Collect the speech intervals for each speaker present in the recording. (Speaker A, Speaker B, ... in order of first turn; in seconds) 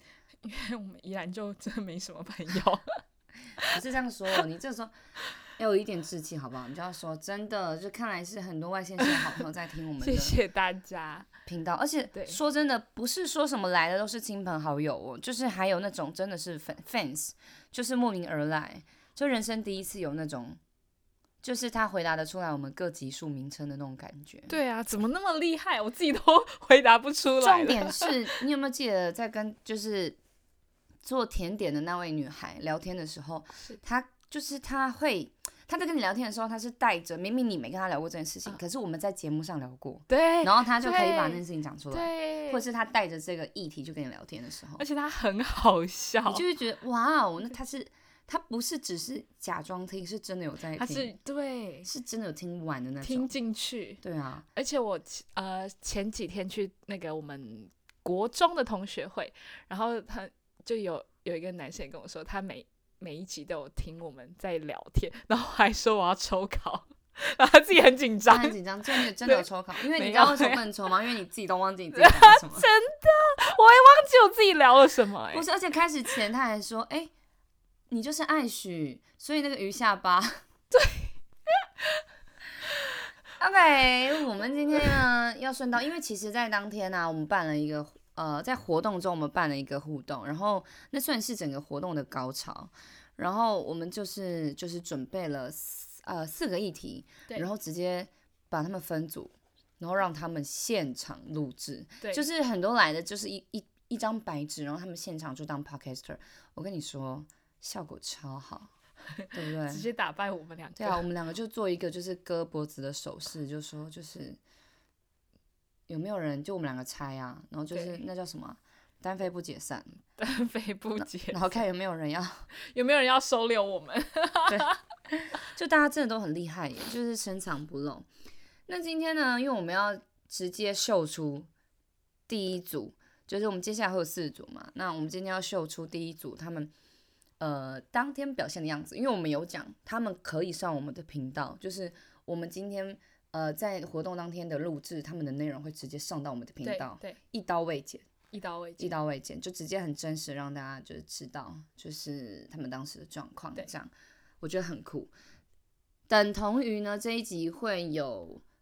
Speaker A: 0.4-3.0, 10.0-11.3, 12.1-12.4, 24.5-28.2, 40.1-42.6, 44.8-46.4, 50.8-51.9, 53.0-54.0, 54.5-70.6, 72.0-75.5, 80.7-81.1, 109.2-111.1, 117.7-118.0, 120.2-121.6, 122.5-124.8, 146.6-147.2, 148.3-149.0
Speaker B: 3.7-5.0, 5.5-10.3, 11.5-20.6, 21.4-24.5, 27.4-30.2, 31.0-44.8, 46.3-51.1, 51.9-53.3, 54.0-54.5, 68.3-72.7, 75.3-77.1, 77.9-80.4, 83.4-108.7, 109.3-109.9, 110.8-114.4, 115.9-120.0, 121.0-122.5, 124.5-128.1, 128.7-131.5, 132.3-136.7, 137.4-148.1, 148.8-155.1, 156.1-158.4